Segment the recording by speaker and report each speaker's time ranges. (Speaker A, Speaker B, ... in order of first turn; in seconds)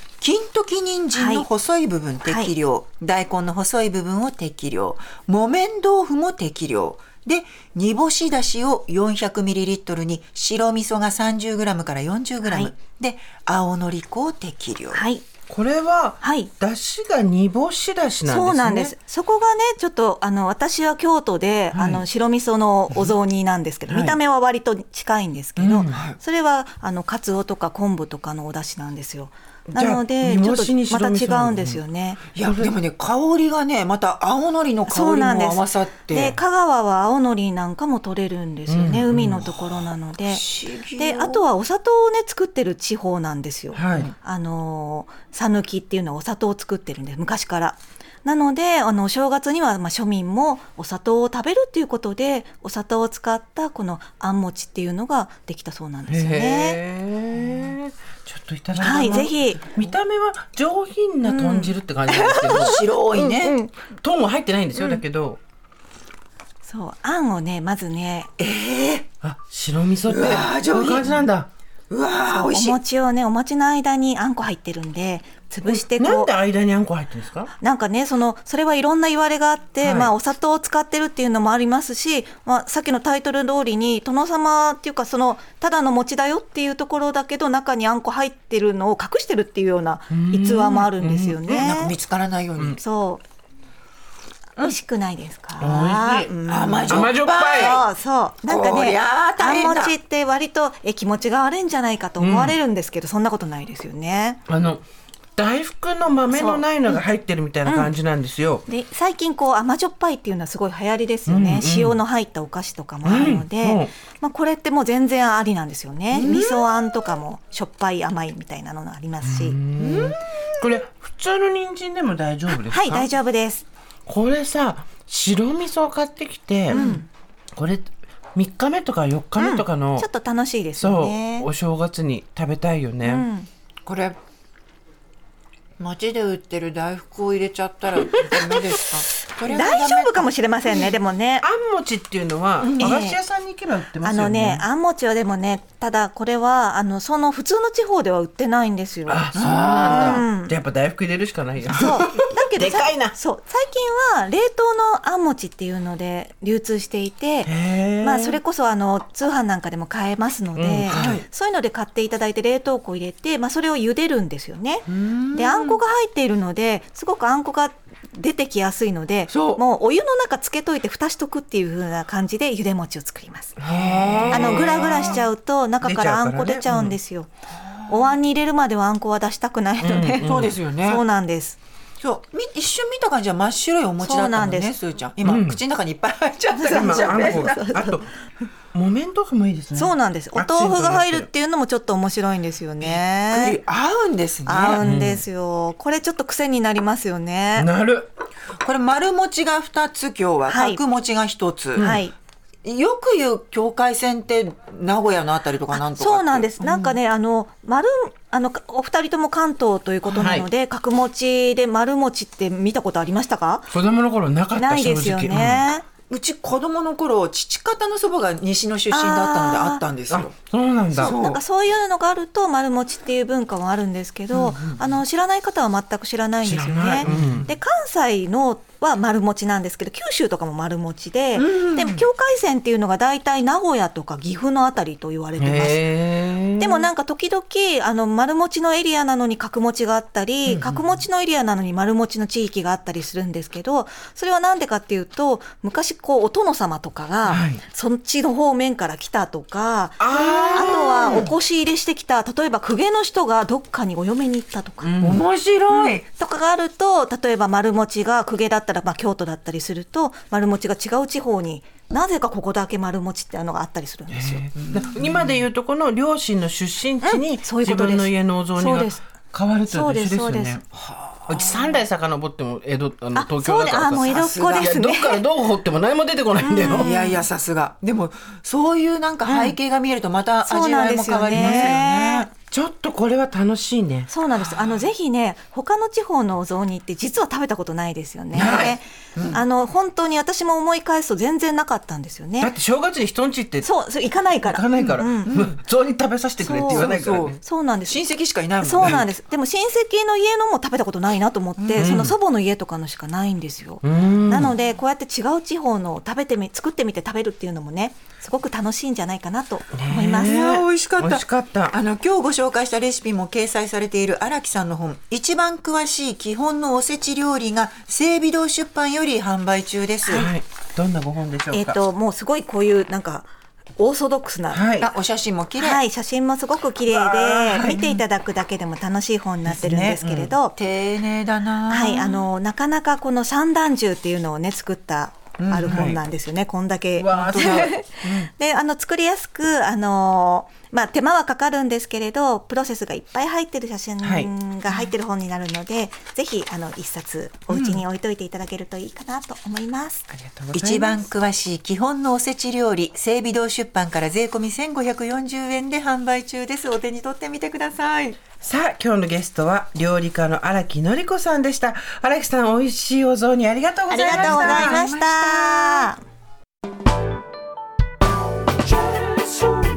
Speaker A: 0.2-15.0, 25.9-26.2, 32.4-36.4, 40.3-41.4, 62.5-63.6, 68.4-69.1, 70.1-71.3, 71.9-72.8, 91.5-92.8, 96.5-97.8, 98.5-100.0, 116.1-116.7, 119.8-120.7, 126.7-127.0, 133.8-134.2, 135.8-140.9, 142.6-142.9, 149.3-150.2, 160.9-161.2, 164.9-165.8, 169.3-169.6, 173.6-175.2, 177.6-178.0, 180.2-181.0, 182.0-187.8, 192.8-194.8, 198.6-201.9, 202.6-207.0, 216.1-220.3, 220.9-221.4, 227.0-227.5, 231.3-232.1, 250.1-251.3, 255.0-256.0, 264.6-265.2, 270.7-271.8, 274.0-274.7, 276.7-282.3, 284.3-284.8, 288.3-289.4, 294.8-295.6, 296.7-299.1, 301.6-302.1, 310.1-320.3, 324.8-325.8, 327.5-328.0, 330.6-332.3, 335.4-336.0, 337.1-338.3, 347.5-347.8, 350.5-358.2, 363.9-365.9
Speaker B: 1.1-1.5, 2.2-2.5, 12.4-12.7, 14.9-15.2, 16.2-16.5, 18.2-32.2, 34.9-56.8, 58.8-59.7, 61.2-63.7, 66.6-68.3, 72.3-76.3, 77.6-92.0, 92.8-93.2, 94.6-104.4, 106.3-107.1, 107.6-107.9, 108.7-119.6, 122.5-123.6, 126.7-127.1, 129.4-131.5, 133.0-133.5, 139.5-141.5, 142.8-143.2, 144.0-149.2, 149.8-150.6, 151.7-173.6, 174.3-177.3, 177.9-181.6, 184.0-184.8, 186.5-188.0, 189.8-193.6, 194.5-197.7, 200.5-200.8, 201.8-202.1, 205.7-213.7, 214.5-215.9, 218.9-219.8, 221.0-235.9, 236.6-254.9, 255.7-264.5, 267.0-269.0, 269.7-270.6, 273.1-275.2, 276.4-277.1, 279.2-279.6, 280.4-282.3, 284.1-292.5, 293.6-295.3, 296.4-296.9, 297.4-298.0, 298.6-310.4, 321.5-324.6, 325.6-330.6, 331.7-350.1, 363.9-366.0
Speaker C: 15.5-18.9, 21.7-22.0, 23.9-24.2, 25.6-26.0, 29.7-31.8, 32.4-32.7, 38.7-39.5, 43.7-44.1, 56.1-62.8, 63.9-65.4, 69.2-71.5, 75.6-77.5, 79.8-80.1, 90.1-91.5, 95.6-96.3, 96.9-97.8, 102.2-102.6, 104.5-104.8, 105.4-108.7, 111.3-112.0, 113.0-113.9, 119.2-123.1, 124.1-126.8, 127.5-130.1, 130.8-133.2, 141.4-144.6, 149.1-153.1, 157.4-158.4, 160.6-161.2, 173.6-175.2, 175.8-177.0, 179.8-180.6, 185.2-185.6, 186.7-188.1, 188.7-191.3, 194.8-195.2, 197.6-198.1, 201.8-202.0, 210.1-210.5, 213.7-215.7, 220.1-221.2, 226.4-227.5, 235.4-236.9, 240.5-240.8, 247.2-247.6, 250.0-251.3, 254.8-255.2, 264.1-270.6, 271.3-277.1, 281.3-281.7, 282.5-284.1, 292.4-293.7, 294.4-297.4, 301.8-302.1, 303.8-304.5, 309.7-311.8, 320.1-321.8, 324.5-324.9, 326.9-327.7, 329.5-330.3, 335.6-336.0, 337.0-337.7, 344.0-344.3, 350.1-351.1, 358.4-364.8